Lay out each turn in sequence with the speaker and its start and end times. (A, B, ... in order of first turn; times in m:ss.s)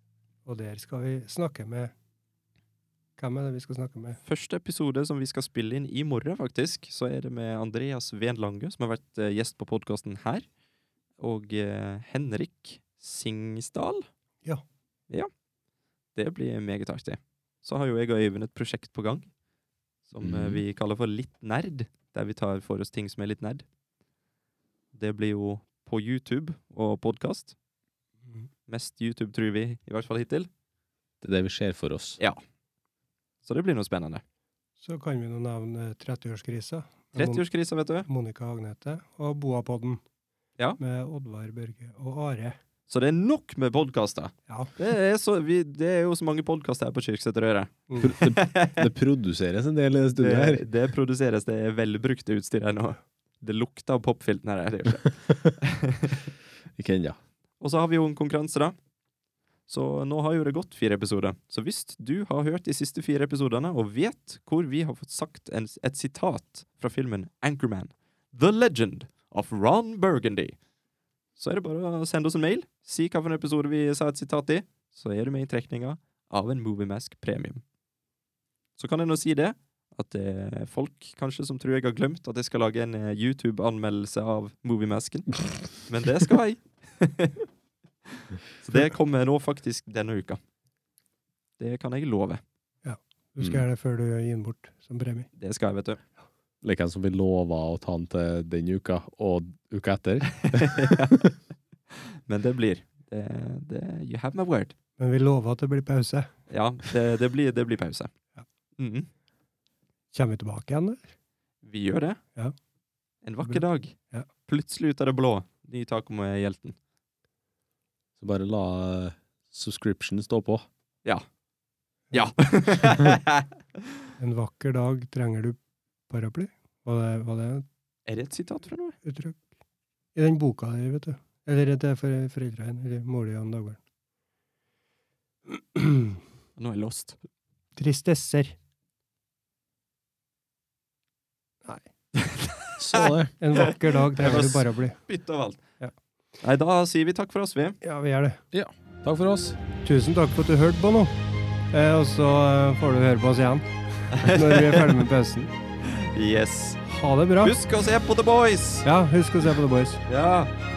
0:00.4-0:01.9 A
0:03.2-0:04.2 A
0:04.2-0:10.5 B
0:11.2-0:14.1 B
0:16.1-0:19.3 B
0:20.1-0:23.6 B
0:20.2-0:20.6 C
0:24.9-0:27.5 B
0:28.7-0:30.5 B
0:31.2-0:32.2 C
0:33.4-0:34.2 B
0:34.8-0:37.4 A
0:37.2-0:38.1 B
0:38.0-0:40.0 A
0:40.8-0:42.6 A
0:42.9-0:48.9 B
0:47.9-0:48.1 A
0:48.0-0:50.6 C
0:50.2-0:56.3 B
0:56.8-0:57.2 C
0:57.6-0:58.7 B
0:59.7-1:10.6 B
1:11.4-1:17.6 B
1:18.8-1:27.5 B
1:28.1-1:30.4 B
1:31.6-1:32.4 B
1:32.8-1:35.3 A
1:35.4-1:36.0 B
1:36.6-1:41.3 C
1:40.3-1:41.3 B
1:41.9-1:44.7 B
1:45.0-1:46.3 A
1:46.5-1:48.1 B
1:48.8-1:49.1 B
1:50.1-1:51.1 A
1:51.6-1:52.2 B
1:53.2-1:56.8 B
1:53.4-1:54.3 A
1:58.2-2:00.6 C
2:02.1-2:03.4 B
2:04.2-2:05.6 A
2:06.1-2:07.6 A
2:08.0-2:09.0 B
2:09.0-2:09.5 A
2:10.1-2:13.8 A
2:15.6-2:16.2 A
2:16.6-2:17.2 B
2:17.8-2:18.6 A
2:22.2-2:25.6 B
2:22.8-2:23.3 C
2:23.4-2:25.0 A
2:26.4-2:27.8 B
2:27.8-2:28.4 A
2:28.5-2:29.6 C
2:29.8-2:31.2 A
2:31.7-2:35.5 A
2:34.1-2:35.0 B
2:36.0-2:36.8 B
2:36.8-2:37.6 A
2:37.4-2:38.8 B
2:38.8-2:40.0 A
2:40.1-2:40.5 B